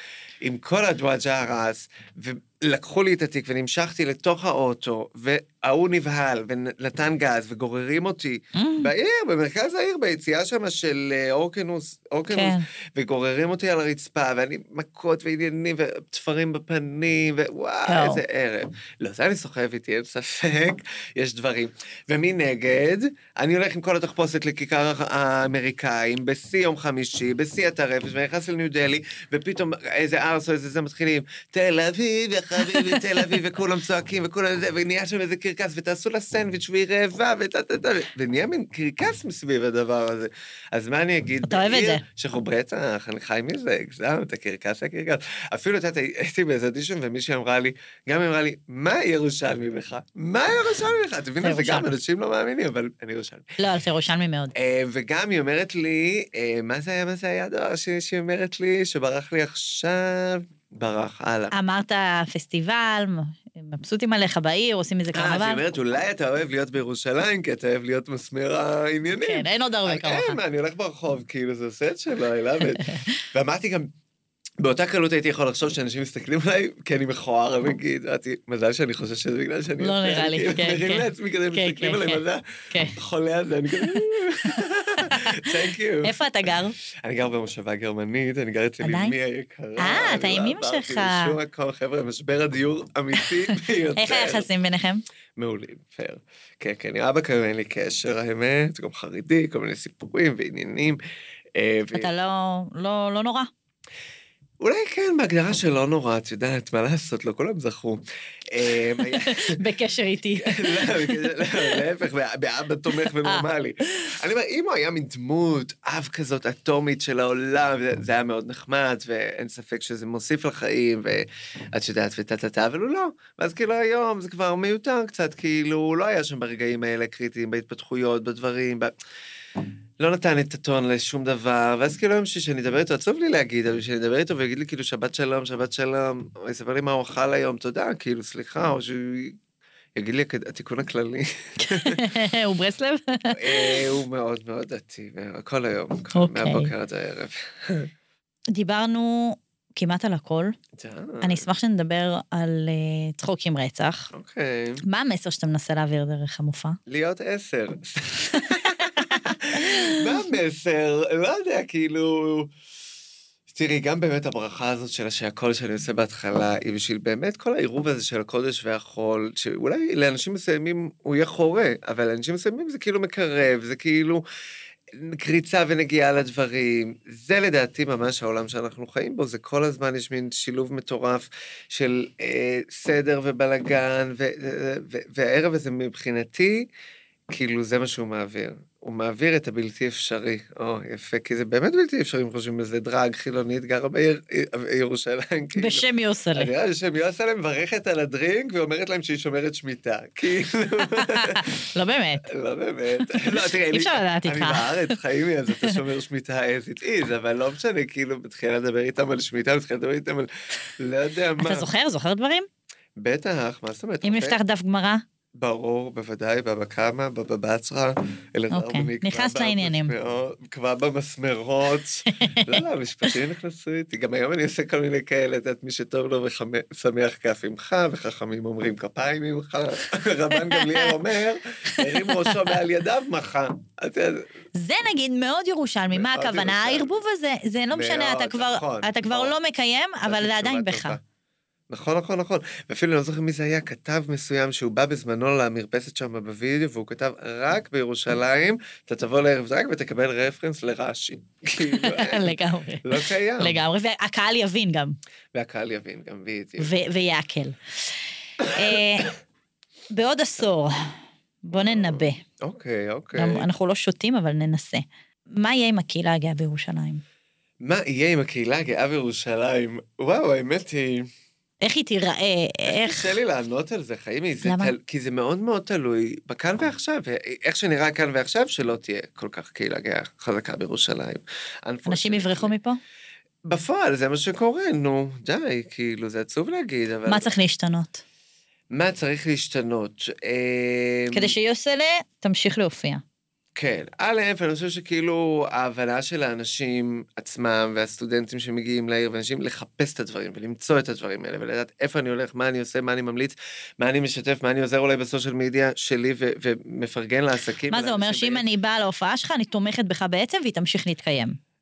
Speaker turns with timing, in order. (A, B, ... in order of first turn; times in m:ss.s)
0:00.4-0:53.5 A
0:08.5-0:08.9 B
0:12.3-0:12.6 B
0:17.9-0:18.2 B
0:32.6-0:33.4 B
0:41.4-0:42.0 B
0:51.4-0:51.9 B
0:53.6-0:54.5 B
0:54.5-1:01.5 A
1:01.5-1:05.6 B
1:05.1-1:13.9 A
1:09.2-1:10.4 B
1:12.7-1:13.2 B
1:14.6-1:26.1 A
1:19.8-1:22.9 B
1:25.0-1:25.4 B
1:26.0-1:26.7 B
1:27.0-1:34.5 A
1:28.8-1:29.1 B
1:29.8-1:31.3 B
1:33.2-1:35.0 B
1:35.4-1:41.0 A
1:41.5-1:42.1 A
1:41.9-1:43.5 B
1:44.6-1:49.6 A
1:49.0-1:51.8 B
1:50.4-2:08.9 A
1:52.9-1:54.1 B
2:10.0-2:19.4 A
2:20.0-2:22.0 A
2:21.6-2:23.8 B
2:23.4-2:27.9 A
2:26.1-2:26.7 B
2:28.5-2:30.5 B
2:30.8-2:31.5 A
2:31.2-2:34.1 B
2:34.1-2:34.8 A
2:34.8-2:36.8 B
2:36.9-2:42.5 A
2:38.3-2:40.0 B
2:43.5-2:54.2 A
2:54.9-3:06.6 A
3:07.3-3:21.6 A
3:15.6-3:16.5 B
3:20.9-3:22.3 B
3:22.2-3:31.7 A
3:23.0-3:25.0 B
3:31.4-3:32.5 B
3:33.0-3:34.4 A
3:34.0-3:35.0 B
3:35.4-3:54.2 A
3:38.5-3:39.9 B
3:42.1-3:42.6 B
3:50.4-3:50.9 B
3:51.7-3:52.4 B
3:54.6-4:01.0 B
3:55.9-3:57.0 A
3:57.7-3:59.3 A
4:00.0-4:01.0 A
4:01.7-4:13.6 A
4:11.6-4:14.9 B
4:15.3-4:16.7 A
4:16.6-4:17.9 B
4:18.4-4:19.1 A
4:18.5-4:19.1 B
4:19.9-4:22.2 B
4:21.5-4:23.5 A
4:23.1-4:24.8 B
4:25.4-4:27.0 B
4:27.6-4:31.1 A
4:31.6-4:33.1 B
4:32.7-4:42.5 A
4:34.4-4:34.7 B
4:41.8-4:42.8 B
4:43.4-4:47.3 A
4:47.1-4:48.0 B
4:48.7-4:51.3 A
4:51.1-4:53.0 B
4:53.6-5:08.4 A
5:07.7-5:11.4 B